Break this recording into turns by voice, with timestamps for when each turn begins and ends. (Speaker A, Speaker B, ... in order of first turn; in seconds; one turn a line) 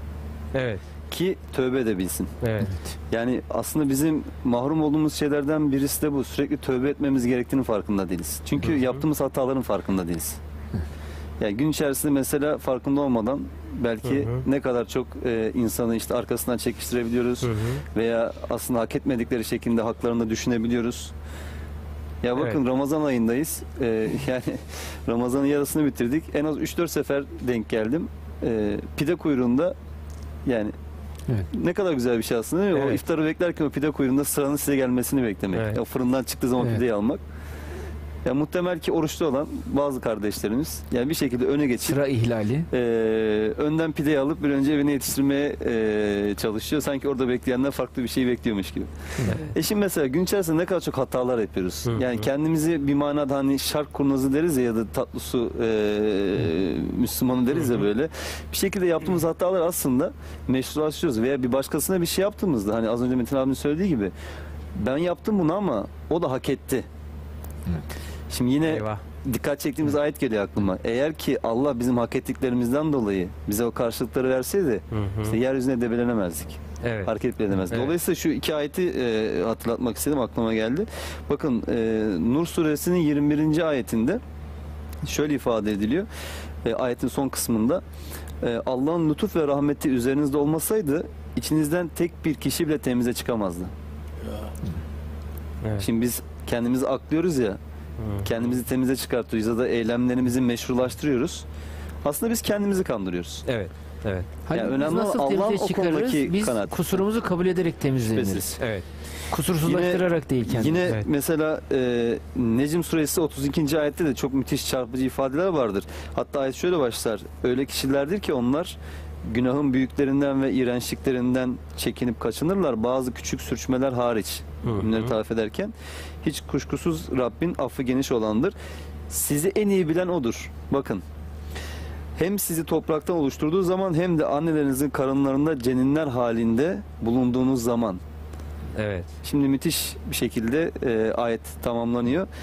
Speaker A: 0.5-0.8
Speaker B: 1.1-2.4
Speaker A: 2.4-2.8
Speaker B: 3.1-10.4
Speaker A: 8.7-9.0
Speaker B: 11.4-21.1
Speaker A: 14.0-14.4
Speaker A: 17.4-17.8
Speaker B: 22.2-29.7
Speaker B: 30.4-30.7
Speaker B: 31.4-37.2
Speaker A: 32.7-33.0
Speaker B: 38.2-42.0
Speaker C: 41.8-42.7
Speaker B: 42.7-64.1
Speaker A: 51.9-52.3
Speaker B: 64.7-66.8
Speaker B: 68.3-84.2
Speaker A: 68.7-69.0
Speaker A: 74.9-75.3
Speaker A: 76.8-77.1
Speaker A: 77.7-77.9
Speaker B: 85.0-86.1
Speaker B: 86.6-87.8
Speaker B: 88.4-93.7
Speaker B: 95.8-97.6
Speaker A: 98.0-98.3
Speaker B: 98.2-101.5
Speaker B: 102.0-103.5
Speaker A: 103.5-104.3
Speaker C: 104.4-108.6
Speaker B: 104.5-107.0
Speaker B: 108.1-108.5
Speaker A: 108.6-108.8
Speaker C: 109.3-111.0
Speaker B: 109.6-128.5
Speaker A: 124.7-125.1
Speaker B: 129.1-131.0
Speaker B: 132.2-138.0
Speaker A: 138.8-139.1
Speaker B: 139.2-142.3